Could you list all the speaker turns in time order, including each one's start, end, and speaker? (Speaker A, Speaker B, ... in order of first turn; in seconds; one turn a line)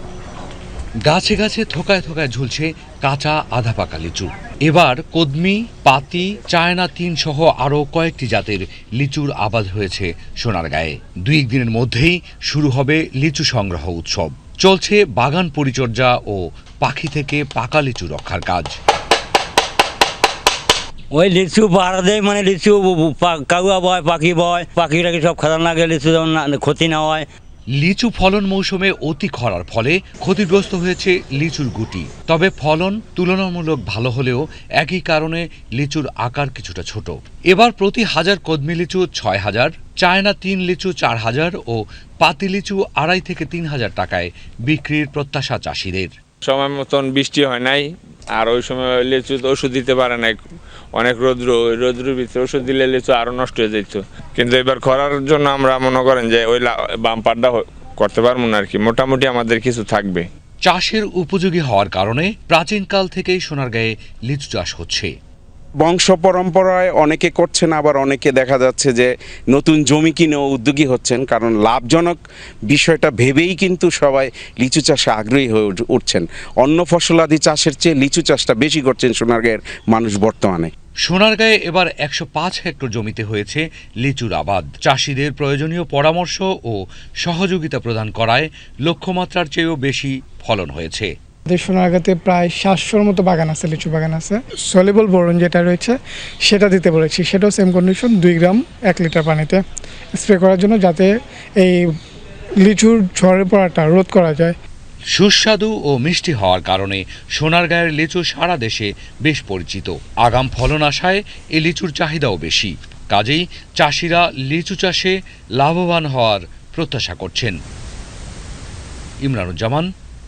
Speaker A: 1.0-18.7
Speaker B: 21.1-27.3
Speaker A: 27.7-46.1
Speaker C: 46.4-50.4
Speaker C: 50.9-60.2
Speaker A: 60.6-65.1
Speaker D: 65.8-80.7
Speaker A: 81.0-91.1
Speaker E: 91.5-99.6
Speaker E: 100.1-101.8
Speaker E: 102.6-104.5
Speaker A: 105.1-117.6
Speaker A: 119.2-119.9